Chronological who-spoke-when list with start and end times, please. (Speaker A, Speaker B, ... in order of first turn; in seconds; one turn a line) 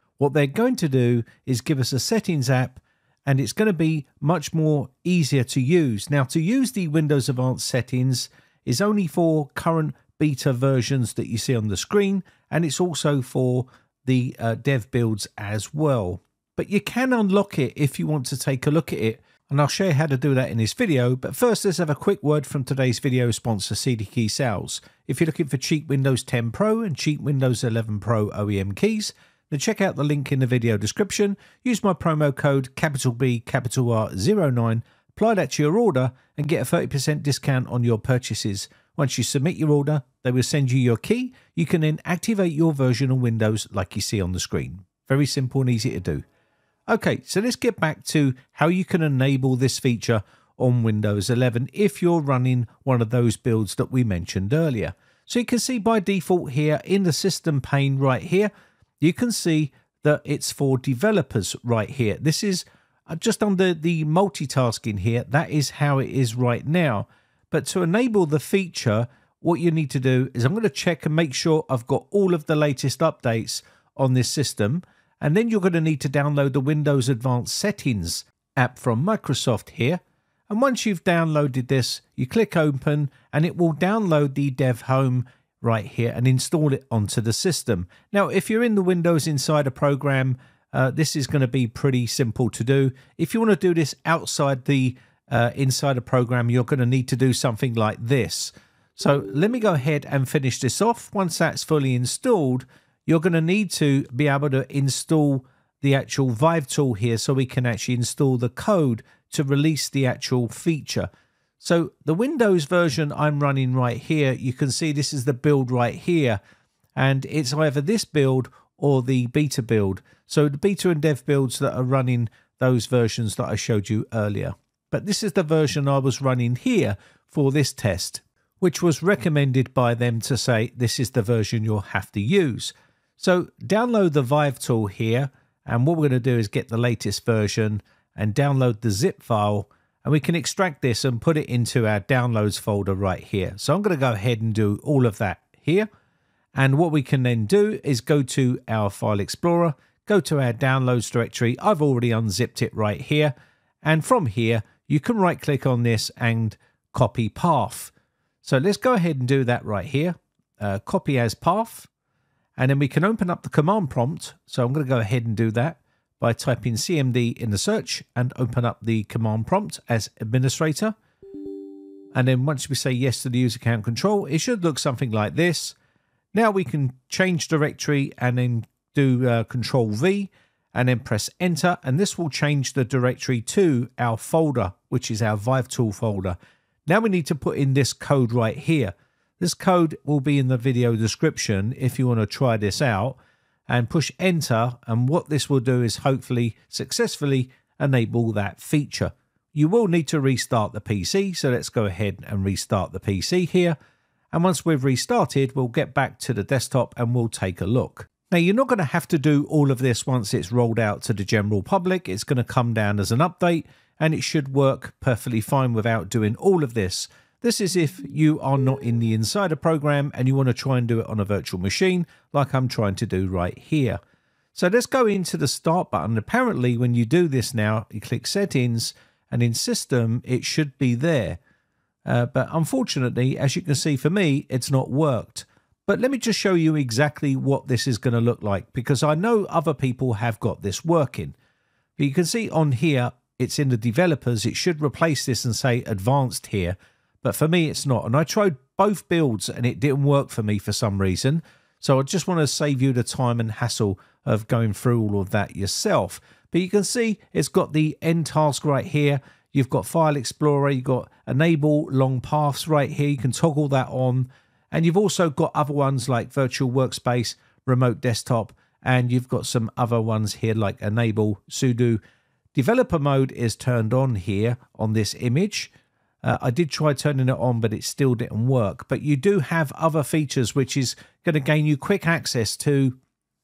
Speaker A: 0.2-46.2
Speaker A: 46.9-116.4
Speaker A: 117.0-145.9
Speaker A: 146.5-161.9
Speaker A: 162.6-170.9
Speaker A: 172.1-175.8
Speaker A: 176.3-186.3
Speaker A: 186.9-193.2
Speaker A: 193.7-203.8
Speaker A: 204.3-224.0
Speaker A: 224.5-231.4
Speaker A: 232.0-241.3
Speaker A: 242.0-272.0
Speaker A: 272.5-275.7
Speaker A: 276.2-282.9